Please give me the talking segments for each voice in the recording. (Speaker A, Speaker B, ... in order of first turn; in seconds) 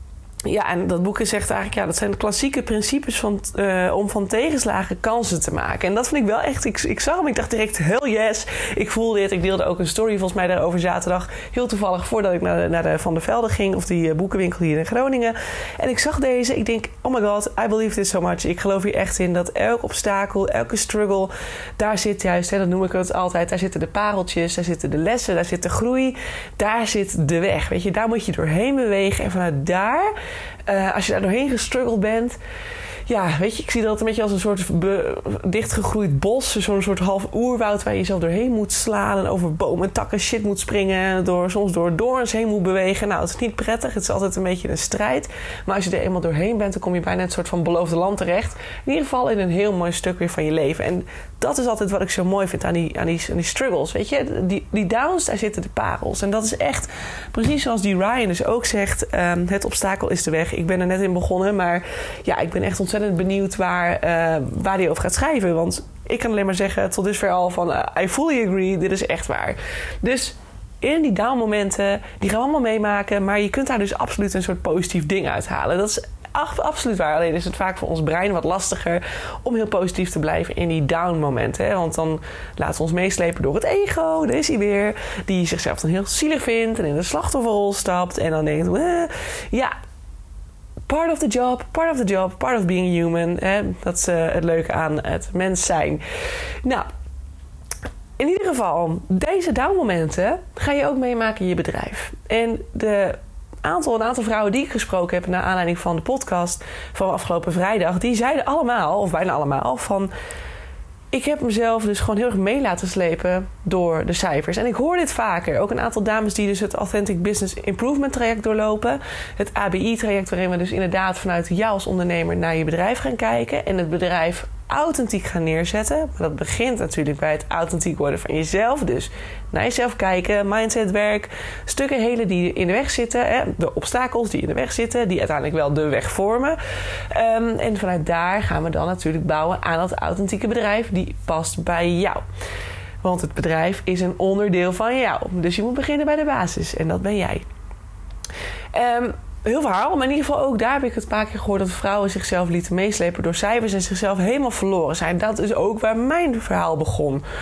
Speaker A: 0.5-30.1, 30.7-32.4, 33.1-89.7, 90.9-96.0, 98.2-110.1, 111.1-136.6, 137.1-142.2, 143.0-147.4, 148.7-157.2